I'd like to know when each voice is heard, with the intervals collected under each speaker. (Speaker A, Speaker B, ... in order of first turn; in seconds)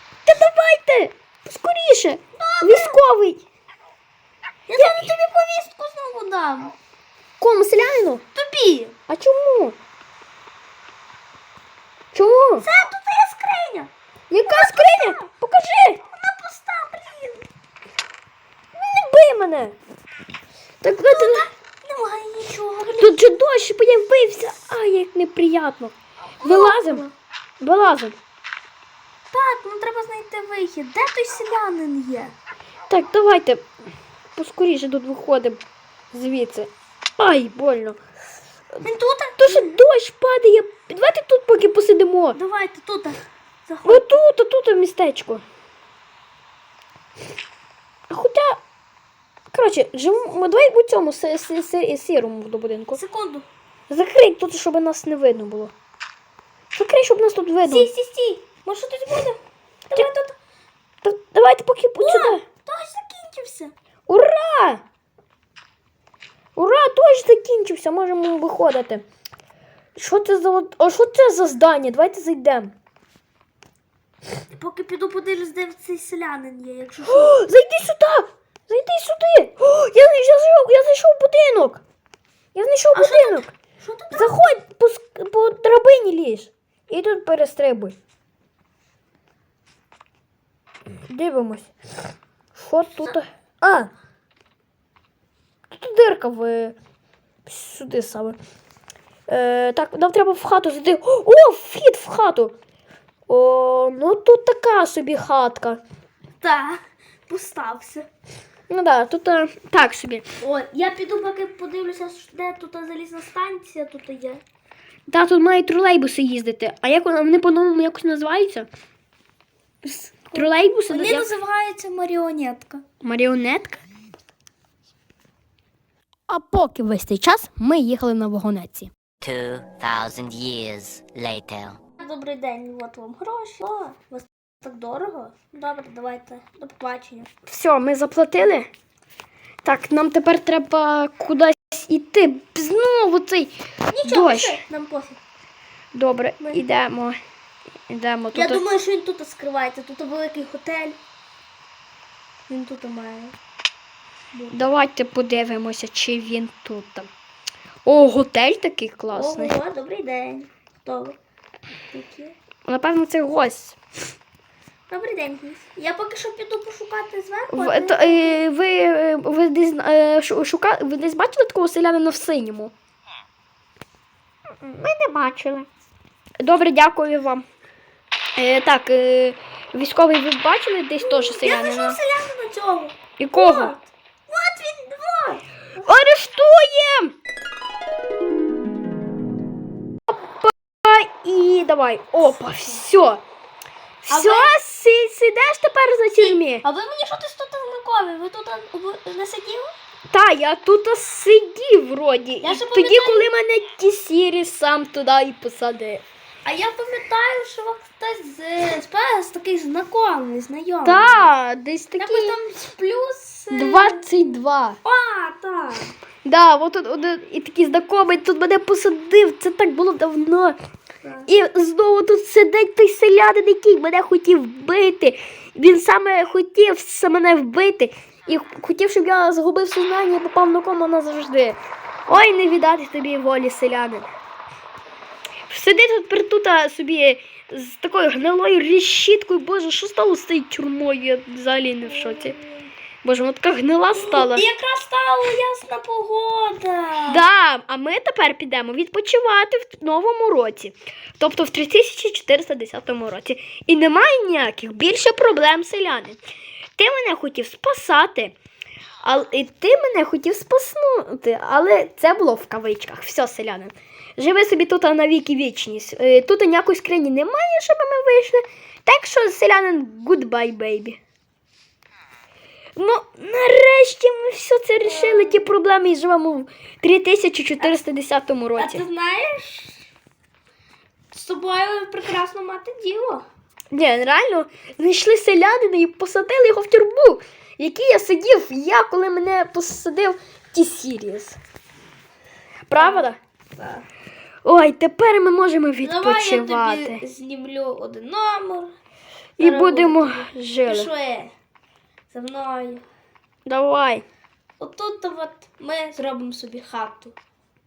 Speaker A: 0.3-3.4, 4.8-5.1, 7.4-8.2, 9.1-9.8, 12.1-12.7, 14.3-16.0, 18.7-19.8, 20.8-21.5, 23.0-27.1, 27.6-28.2, 32.9-33.6, 34.4-35.6, 36.1-38.0, 39.4-42.4, 43.9-45.4, 48.1-48.6, 49.5-53.0, 53.9-55.7, 56.7-57.9, 61.0-62.4, 64.1-64.8, 66.6-69.0, 70.0-72.7, 77.1-81.8, 82.5-83.5, 84.1-88.0, 91.1-91.7, 92.5-93.9, 95.7-96.8, 97.5-98.4, 99.3-102.5, 103.3-105.8, 108.7-110.2, 115.1-118.7, 120.3-121.3, 123.0-123.8, 126.3-128.9, 137.5-138.7, 139.6-144.6, 145.9-147.2, 147.9-148.6, 154.5-157.1, 157.8-159.6, 162.7-163.8, 167.5-172.7, 174.6-175.7, 176.4-177.4, 178.4-182.0, 183.2-183.7, 185.8-187.1, 190.3-193.2, 194.0-196.7, 200.1-206.0, 210.8-212.4, 213.5-214.8, 216.2-220.6, 221.3-234.1, 235.5-242.4, 243.0-244.4, 247.1-256.2, 256.8-258.4, 259.0-271.0, 272.8-278.8, 283.7-291.4, 292.7-293.2, 294.4-297.0, 299.4-300.9, 303.5-304.1
Speaker B: 2.4-3.0, 4.7-6.8, 8.3-9.0, 12.6-13.9, 14.4-15.3, 16.1-17.5, 21.1-23.2, 26.4-27.1, 29.3-32.4, 38.8-39.7, 42.4-44.2, 52.9-53.5, 57.7-60.4, 62.0-63.7, 74.5-77.3, 82.9-84.3, 106.4-108.1, 110.4-114.4, 119.8-122.8, 132.0-137.3, 143.9-145.2, 148.3-151.0, 152.5-153.3, 154.3-154.7, 159.1-161.2, 161.9-162.3, 164.9-168.4, 181.0-185.4, 194.1-194.6, 196.2-199.7, 202.4-203.3, 206.4-211.3, 212.0-214.1, 214.8-215.9, 221.0-221.3, 241.9-242.7, 244.0-247.2, 274.8-275.5, 278.6-279.8, 281.1-283.2, 292.7-293.9, 295.8-298.7, 299.4-301.3, 302.1-302.8, 304.6-307.1
Speaker C: 129.2-131.8